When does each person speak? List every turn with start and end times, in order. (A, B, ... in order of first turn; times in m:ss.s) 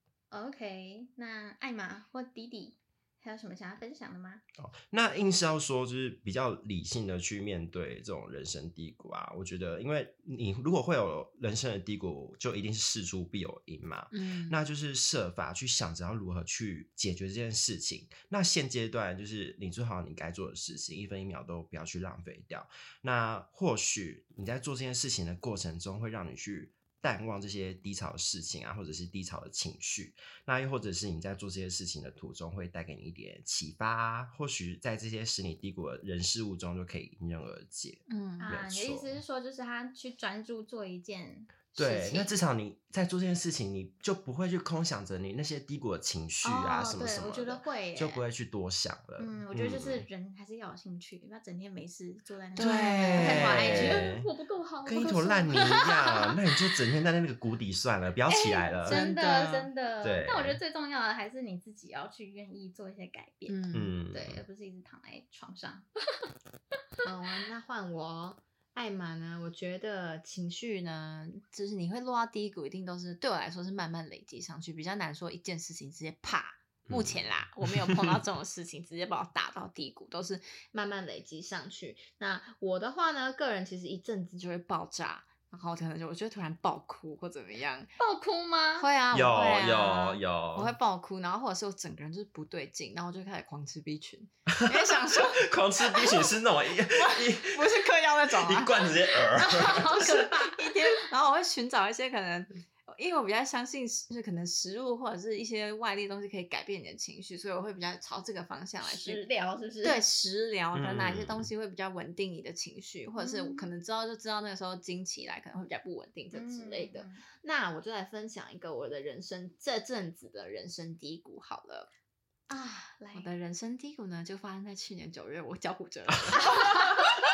0:00.3-0:04.4 A
0:04.6-0:39.1 B
0:14.1-0:14.6 C
0:38.1-0:38.6 C
0:38.4-0:42.4 A
0:41.8-0:50.1 B
0:46.4-0:48.2 A
0:49.2-0:56.2 A
0:52.6-0:54.0 C
0:52.6-0:54.3 B
0:54.9-0:59.1 B
0:58.3-0:59.7 C
0:58.8-1:05.9 A
1:00.0-1:00.6 B
1:03.5-1:04.0 C
1:03.7-1:04.4 B
1:07.0-1:27.9 C
1:16.9-1:17.2 B
1:28.0-1:28.9 A
1:28.8-1:36.3 C
1:29.1-1:30.7 B
1:34.6-1:40.2 B
1:36.9-1:38.9 C
1:39.4-1:40.8 A
1:39.8-1:49.2 C
1:48.8-1:50.0 A
1:49.8-2:01.9 C
1:50.7-1:51.5 B
1:53.2-1:53.7 A
1:56.3-1:57.2 A
2:02.5-2:03.3 A
2:03.1-2:07.1 C
2:06.4-2:07.1 A